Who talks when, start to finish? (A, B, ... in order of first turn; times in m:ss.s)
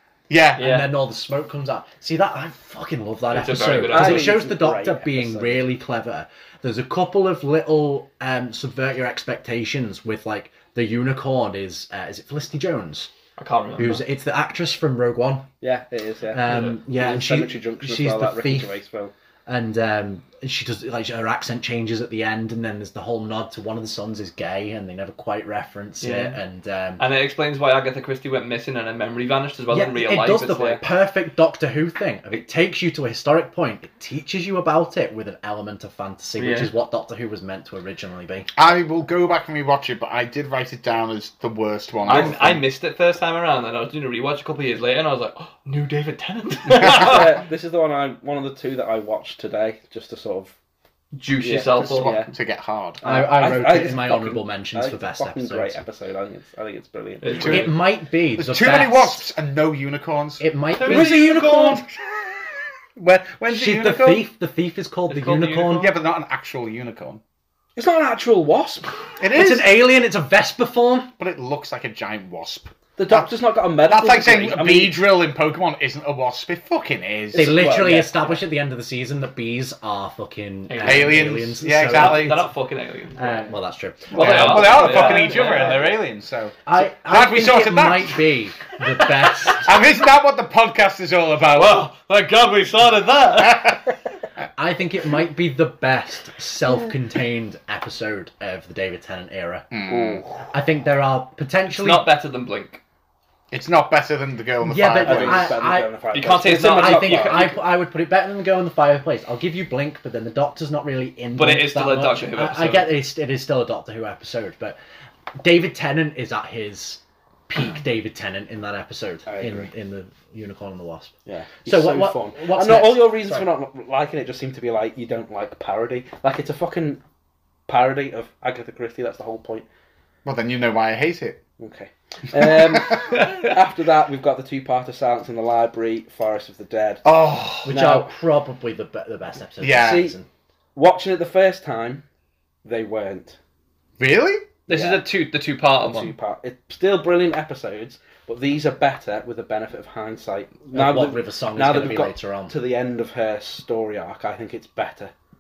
0:00.3-0:00.7 A
0:00.6-0:00.9 B
0:00.6-0:13.1 C
0:03.3-0:04.4 B
0:03.8-0:05.7 D
0:13.4-0:14.0 B
0:13.8-0:15.5 C
0:15.6-0:19.1 D
0:16.3-0:18.8 C
0:19.4-0:27.0 C
0:26.0-0:26.4 B
0:27.0-0:30.8 B
0:29.7-0:38.5 C
0:36.4-0:36.7 B
0:38.6-0:42.6 A
0:42.1-0:47.4 B
0:46.7-0:50.5 D
0:51.1-0:52.2 B
0:51.4-0:52.3 D
0:51.9-0:53.0 A
0:53.0-0:57.7 D
0:53.0-0:55.8 C
0:57.2-0:57.8 B
0:57.4-0:59.3 C
0:58.4-1:01.6 A
1:00.4-1:01.4 C
1:00.8-1:01.8 B
1:00.9-1:01.8 D
1:03.0-1:04.3 A
1:03.5-1:05.9 C
1:05.1-1:05.9 B
1:05.8-1:07.2 A
1:07.8-1:09.0 D
1:09.2-1:09.7 A
1:09.3-1:11.1 C
1:11.2-1:13.3 A
1:13.0-1:15.0 D
1:13.9-1:17.6 A
1:17.3-1:18.4 D
1:17.3-1:22.4 C
1:20.7-1:23.5 B
1:20.8-1:22.4 A
1:23.2-1:25.7 C
1:24.1-1:25.9 B
1:24.1-1:28.2 A
1:26.6-1:29.7 C
1:29.0-1:29.6 B
1:29.6-1:31.9 A
1:31.5-1:33.8 B
1:33.4-1:33.8 A
1:34.6-1:39.7 C
1:39.7-1:40.2 A
1:39.9-1:40.4 D
1:40.5-1:42.1 C
1:41.7-1:42.8 B
1:43.5-1:45.5 A
1:44.6-1:45.9 C
1:45.0-1:47.5 D
1:46.1-1:47.6 B
1:46.5-1:54.8 C
1:51.4-1:52.9 B
1:55.4-2:03.5 C
1:59.3-1:59.7 D
2:01.2-2:07.0 D
2:07.7-2:09.6 D
2:10.2-2:11.4 A
2:11.6-2:17.0 D
2:12.4-2:13.2 A
2:17.0-2:17.8 A
2:17.6-2:20.3 C
2:17.6-2:18.1 D
2:19.6-2:20.1 A
2:19.7-2:20.2 D
2:20.7-2:22.0 D
2:22.6-2:23.4 D
2:24.0-2:24.5 A
2:24.7-2:25.1 D
2:24.7-2:26.1 B
2:25.8-2:35.1 D
2:30.7-2:32.6 C